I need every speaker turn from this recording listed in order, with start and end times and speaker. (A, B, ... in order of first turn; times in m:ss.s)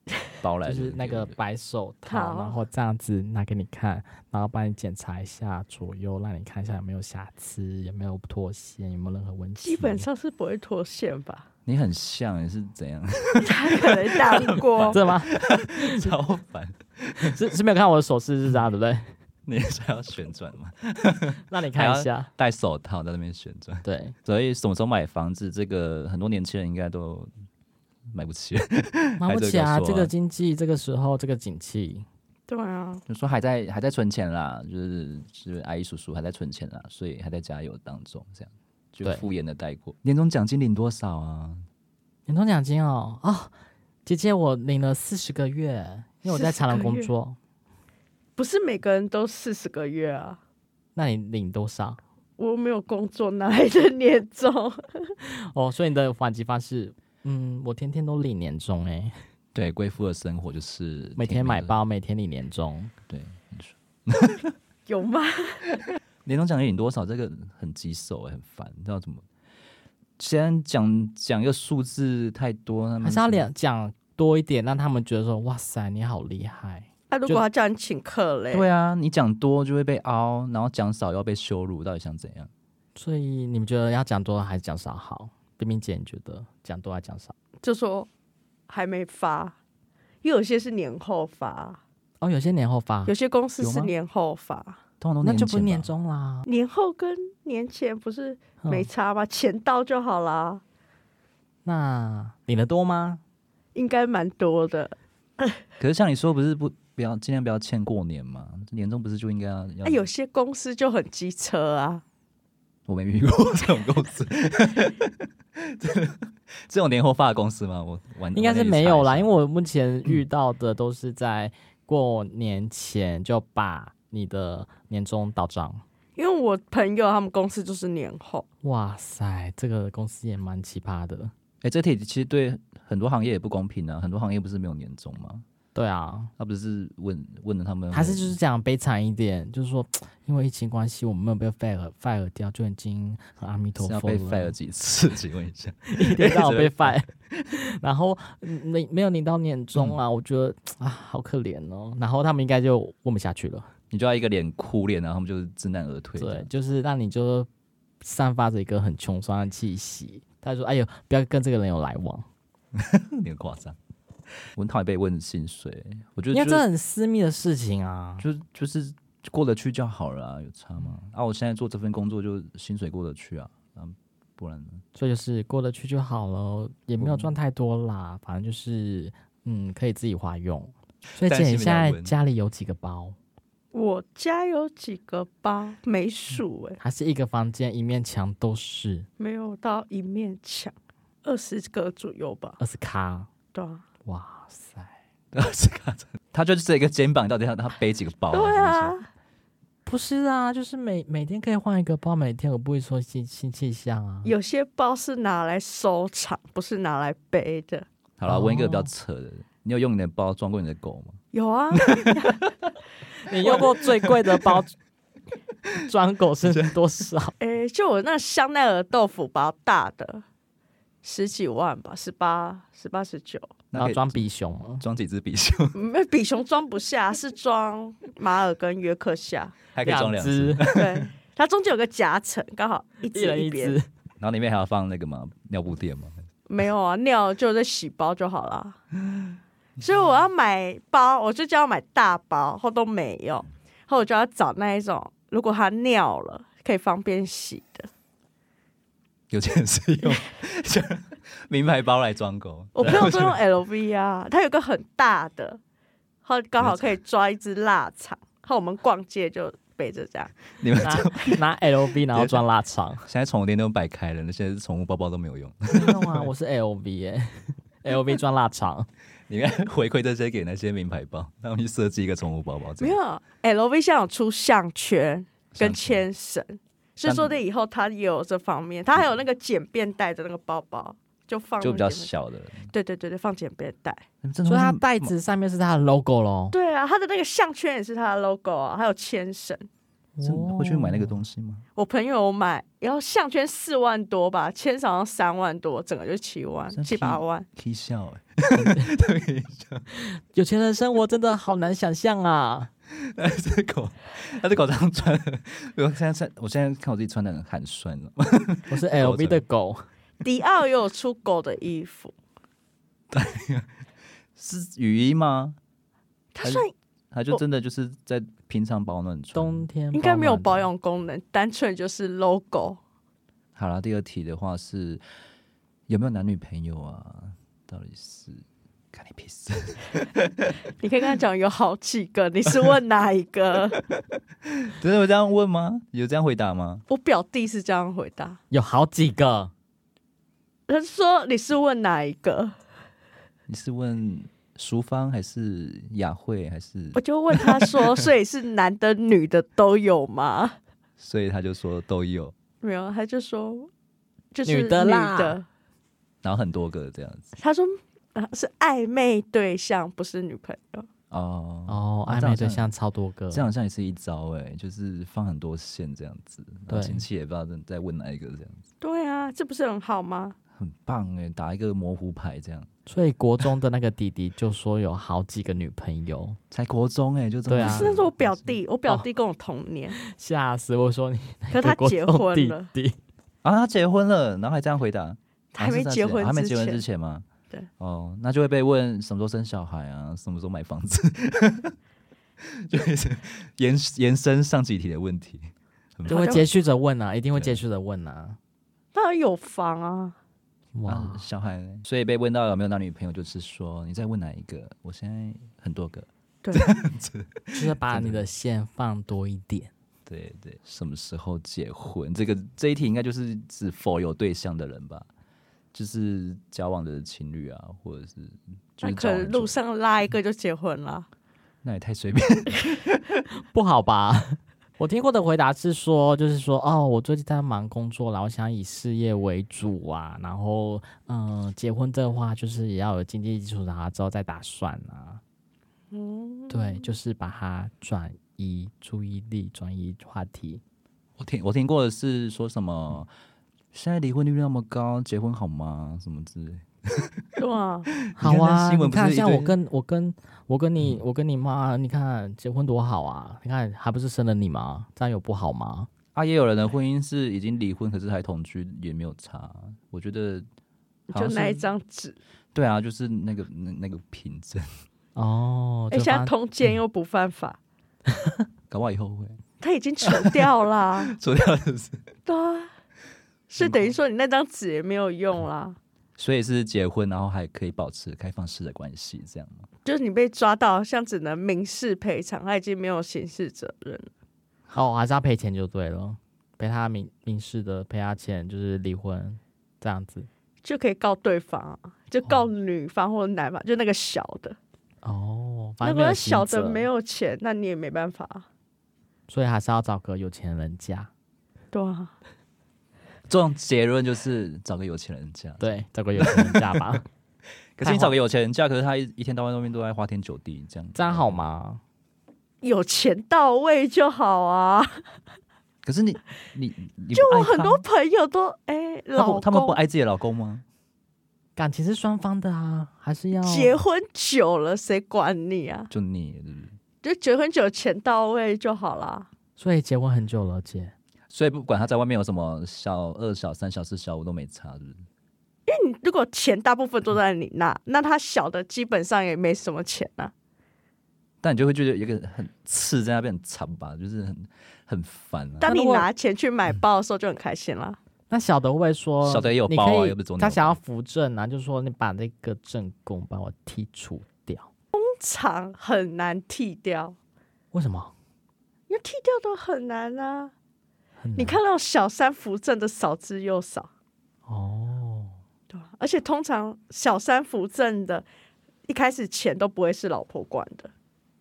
0:00.4-0:01.4 A
0:00.6-0:10.1 B
0:02.0-0:02.6 C
0:09.6-0:11.4 C
0:11.6-0:17.4 A
0:13.4-0:15.0 C
0:14.9-0:16.1 B
0:17.2-0:19.1 B
0:19.4-0:27.3 A
0:21.5-0:22.3 B
0:23.8-0:24.1 B
0:28.1-0:30.1 A
0:29.2-0:32.0 B
0:32.5-0:33.0 C
0:33.1-0:41.6 A
0:42.3-0:43.5 B
0:44.0-0:47.4 B
0:46.3-0:47.1 C
0:48.4-0:50.4 C
0:51.0-0:52.0 B
0:52.4-0:55.1 C
0:55.4-0:59.1 B
0:59.5-1:01.7 A
1:01.2-1:02.9 B
1:03.1-1:04.5 A
1:04.9-1:05.7 C
1:06.2-1:09.2 A
1:10.2-1:13.4 A
1:13.0-1:17.4 B
1:17.1-1:18.6 C
1:18.5-1:22.5 A
1:23.0-1:27.3 B
1:27.6-1:28.1 C
1:28.7-1:29.6 C
1:30.2-1:31.8 C
1:32.2-1:33.1 B
1:33.0-1:34.8 C
1:33.6-1:33.9 A
1:35.0-1:35.9 A
1:35.2-1:36.5 B
1:36.4-1:40.6 C
1:38.6-1:38.9 B
1:41.6-1:43.2 B
1:43.7-1:45.6 C
1:45.8-1:50.0 A
1:49.8-1:52.0 C
1:52.9-1:59.3 A
1:58.3-2:05.8 B
2:06.2-2:08.4 C
2:08.6-2:11.3 B
2:11.6-2:15.4 A
2:15.7-2:16.3 B
2:16.4-2:18.3 A
2:17.9-2:24.5 B
2:23.8-2:27.5 A
2:25.9-2:33.7 B
2:33.9-2:36.5 A
2:36.2-2:37.5 B
2:38.0-2:42.3 B
2:42.7-2:43.8 A
2:44.5-2:46.6 A
2:46.3-2:48.2 B
2:48.2-2:54.8 A
2:54.9-3:03.2 B
2:57.0-2:57.3 A
3:01.1-3:02.1 A
3:03.7-3:06.8 C
3:06.8-3:09.1 B
3:09.2-3:12.6 C
3:12.6-3:13.3 B
3:13.5-3:13.8 C
3:14.0-3:14.9 B
3:15.3-3:18.9 A
3:18.3-3:19.1 C
3:19.8-3:24.3 B
3:24.2-3:27.8 C
3:28.2-3:31.2 A
3:28.3-3:28.9 B
3:31.3-3:32.4 C
3:31.9-3:32.5 A
3:33.2-3:34.7 B
3:33.3-3:34.6 A
3:33.4-3:33.7 C
3:35.8-3:37.3 B
3:36.5-3:36.8 A
3:37.4-3:40.2 C
3:41.0-3:43.5 C
3:43.7-3:44.2 A
3:43.7-3:44.8 B
3:44.8-3:45.8 A
3:45.7-3:49.5 C
3:49.7-3:51.0 A
3:49.8-3:50.6 B
3:50.7-3:53.8 C
3:53.1-3:53.9 B
3:54.2-3:56.2 A
3:56.5-3:58.8 C
3:59.8-4:07.9 C
4:09.3-4:13.4 A
4:12.8-4:15.6 C
4:12.8-4:13.1 B
4:16.2-4:20.3 C
4:16.6-4:16.9 A
4:20.6-4:21.4 A
4:20.8-4:23.0 B
4:22.1-4:22.4 A
4:23.0-4:26.3 A
4:25.7-4:28.9 B
4:29.3-4:33.0 A
4:32.8-4:42.1 C
4:35.5-4:36.0 A
4:37.0-4:37.4 A
4:41.6-4:42.7 A
4:42.7-4:44.0 C
4:44.2-4:45.1 A
4:44.4-4:46.5 B
4:46.5-4:49.6 C
4:50.2-4:51.2 B
4:50.2-4:51.6 A
4:51.8-4:57.5 C
4:56.7-4:59.9 A
4:58.5-4:58.9 B
5:00.0-5:02.7 B
5:03.0-5:09.4 A
5:08.7-5:09.8 B
5:10.2-5:12.1 C
5:13.1-5:13.7 A
5:14.4-5:15.6 A
5:16.3-5:16.7 C
5:16.4-5:19.7 A
5:19.3-5:20.7 B
5:19.9-5:22.8 C
5:23.6-5:25.0 A
5:25.9-5:30.6 A
5:30.8-5:33.8 C
5:34.5-5:36.8 A
5:36.9-5:38.4 C
5:38.5-5:39.5 B
5:40.7-5:42.5 C
5:43.5-5:47.8 A
5:46.9-5:50.6 C
5:51.0-5:52.3 A
5:52.6-5:53.7 C
5:54.3-5:55.4 C
5:54.4-5:55.4 B
5:56.2-5:57.3 A
5:57.4-6:00.9 C
6:01.1-6:02.7 A
6:01.7-6:03.5 B
6:03.3-6:08.6 A
6:06.7-6:07.0 B
6:08.8-6:10.4 C
6:10.6-6:12.7 A
6:12.9-6:16.4 B
6:16.5-6:18.6 A
6:17.5-6:17.9 B
6:17.6-6:20.0 C
6:20.0-6:23.0 B
6:21.5-6:22.7 C
6:23.4-6:27.2 A
6:25.5-6:26.8 C
6:27.8-6:31.7 A
6:32.4-6:36.5 A
6:36.1-6:36.4 C
6:36.1-6:38.4 B
6:37.3-6:37.6 A
6:38.9-6:40.2 C
6:40.7-6:41.2 B
6:40.8-6:48.2 A
6:47.5-6:49.7 B
6:50.0-6:55.1 A
6:55.7-6:59.5 A
6:58.8-7:01.1 C
7:01.6-7:03.2 A
7:03.5-7:15.2 B
7:15.9-7:16.9 C
7:16.5-7:20.6 B
7:21.2-7:23.1 A
7:23.7-7:27.2 A
7:27.4-7:27.9 C
7:28.0-7:29.5 A
7:28.2-7:35.9 B
7:36.1-7:40.4 A
7:41.1-7:42.2 C
7:41.1-7:41.6 A
7:42.5-7:44.7 A
7:45.1-7:46.3 B
7:45.9-7:47.6 C
7:48.1-7:48.4 B
7:48.7-7:49.4 A
7:49.6-7:51.1 C
7:50.0-7:50.5 A
7:51.0-7:52.0 A
7:52.2-7:52.7 C
7:53.5-7:55.8 C
7:53.6-7:53.9 A
7:56.2-7:59.7 A
7:59.8-8:04.1 C
8:04.7-8:10.3 B
8:10.6-8:14.6 C
8:15.0-8:16.9 B
8:15.8-8:18.4 C
8:19.3-8:21.1 B
8:21.7-8:22.1 C
8:23.3-8:27.0 A
8:25.6-8:27.0 B
8:27.8-8:31.4 A
8:27.8-8:28.1 B
8:30.9-8:31.8 B
8:32.6-8:35.0 C
8:35.8-8:37.8 A
8:37.1-8:39.8 C
8:39.2-8:40.6 A
8:41.6-8:43.8 B
8:43.4-8:45.9 C
8:45.9-8:46.7 A
8:47.0-8:49.3 C
8:49.6-8:50.9 B
8:51.3-8:55.0 A
8:55.7-9:00.3 C
9:01.4-9:05.7 A
9:05.6-9:08.0 C
9:05.6-9:06.1 B
9:08.3-9:14.7 B
9:09.2-9:10.8 A
9:14.9-9:17.2 C
9:17.7-9:18.1 B
9:18.9-9:20.5 C
9:21.2-9:21.6 B
9:21.4-9:23.9 C
9:24.5-9:25.3 B
9:25.7-9:28.2 C
9:28.9-9:30.9 C